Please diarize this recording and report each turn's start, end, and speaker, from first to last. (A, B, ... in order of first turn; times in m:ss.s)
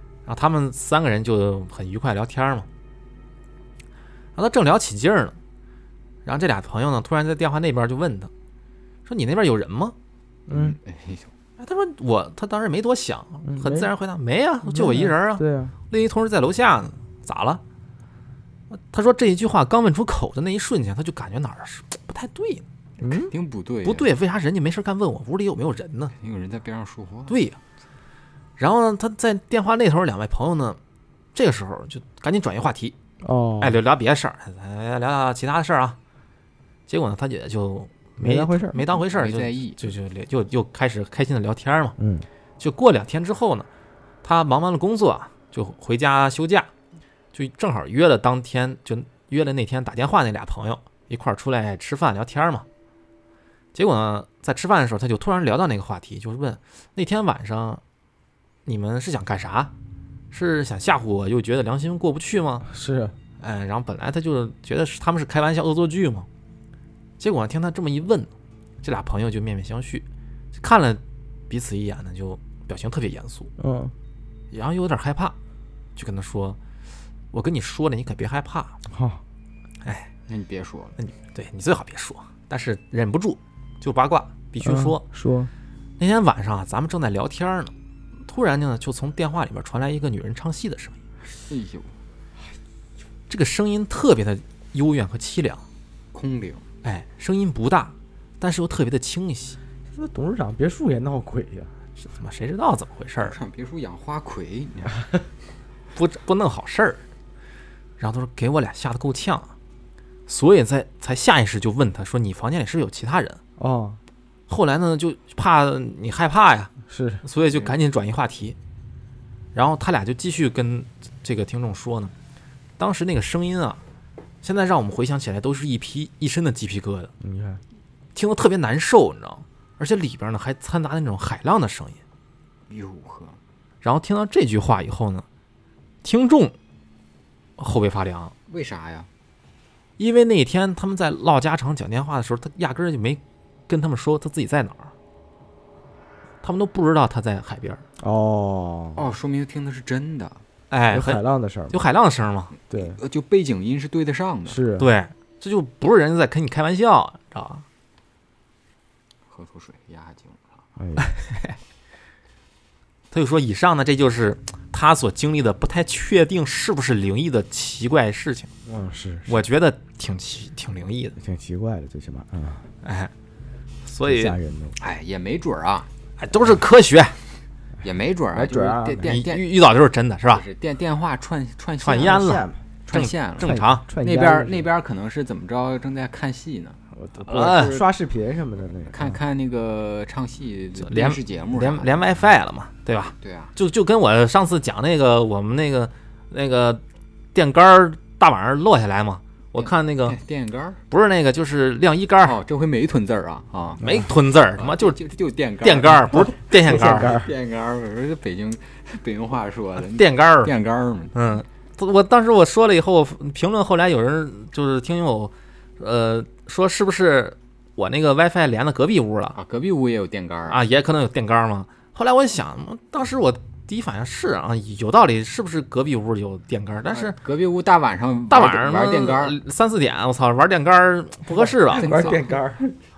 0:00.2-0:02.7 A
0:04.4-0:05.4 A
0:06.2-0:08.3 A
0:09.0-0:09.9 A
0:10.5-0:10.8 B
0:10.5-0:11.3 C
0:11.6-0:17.6 A
0:13.4-0:13.9 B
0:14.6-0:15.7 B
0:18.7-0:22.6 A
0:23.0-0:23.3 B
0:23.0-0:24.1 C
0:23.8-0:26.1 A
0:26.2-0:27.4 C
0:27.3-0:27.6 A
0:28.6-0:30.8 A
0:31.3-0:32.9 A
0:33.2-0:33.8 B
0:33.6-0:36.0 A
0:36.9-0:42.0 A
0:38.2-0:38.8 B
0:39.0-0:39.9 C
0:42.0-0:42.2 B
0:42.6-0:43.7 A
0:44.2-0:46.7 A
0:47.3-0:52.6 A
0:53.7-0:57.8 A
0:58.6-0:59.7 A
1:00.3-1:02.6 A
1:02.6-1:03.1 B
1:03.4-1:06.3 A
1:07.2-1:08.3 A
1:08.8-1:13.5 A
1:13.6-1:13.9 B
1:14.5-1:15.4 A
1:16.0-1:16.6 A
1:17.3-1:18.8 A
1:18.9-1:19.2 B
1:19.8-1:20.1 A
1:20.3-1:21.0 C
1:21.0-1:25.0 A
1:24.6-1:25.5 B
1:26.0-1:27.7 A
1:28.2-1:31.0 A
1:31.4-1:32.0 C
1:33.3-1:35.6 A
1:36.1-1:36.7 C
1:36.8-1:39.6 A
1:39.9-1:41.7 B
1:42.0-1:43.4 A
1:43.2-1:45.1 C
1:45.9-1:47.0 A
1:48.0-1:49.5 A
1:50.3-1:53.4 A
1:53.6-1:54.0 B
1:54.5-1:56.7 A
1:56.9-1:57.2 B
1:57.2-1:58.6 A
1:59.5-2:02.1 A
2:02.8-2:03.8 A
2:04.4-2:07.1 A
2:07.2-2:07.6 B
2:08.1-2:12.0 A
2:12.7-2:13.4 C
2:13.8-2:15.2 A
2:16.0-2:16.5 A
2:17.6-2:18.3 A
2:18.5-2:19.1 C
2:20.0-2:24.9 A
2:26.4-2:27.8 A
2:28.0-2:29.1 B
2:28.9-2:30.4 C
2:30.7-2:32.5 A
2:30.9-2:31.8 B
2:32.7-2:34.6 C
2:32.7-2:33.0 B
2:34.5-2:34.9 B
2:34.8-2:37.6 A
2:39.3-2:40.6 C
2:40.8-2:41.1 B
2:41.1-2:41.5 A
2:43.1-2:48.5 A
2:48.6-2:49.4 B
2:49.3-2:51.2 A
2:51.2-2:52.7 B
2:52.8-2:53.1 A
2:53.8-2:54.4 A
2:54.0-2:54.8 B
2:54.8-2:55.9 C
2:56.2-2:57.2 A
2:57.8-2:59.5 C
2:58.3-2:59.2 B
2:59.0-3:00.4 A
3:00.3-3:02.3 C
3:01.8-3:03.8 A
3:02.0-3:02.6 B
3:02.8-3:07.9 C
3:03.4-3:04.7 B
3:06.9-3:09.1 B
3:07.3-3:07.8 A
3:08.9-3:12.0 C
3:10.8-3:16.8 A
3:13.2-3:13.5 C
3:17.3-3:20.2 A
3:19.6-3:20.8 C
3:20.9-3:22.4 A
3:22.2-3:31.2 C
3:23.8-3:25.0 A
3:25.6-3:27.2 A
3:26.1-3:27.3 B
3:29.9-3:30.5 A
3:31.1-3:39.4 A
3:39.3-3:40.6 C
3:40.5-3:47.2 A
3:46.9-3:49.4 C
3:48.3-3:52.0 A
3:51.3-3:52.6 B
3:51.7-3:52.7 C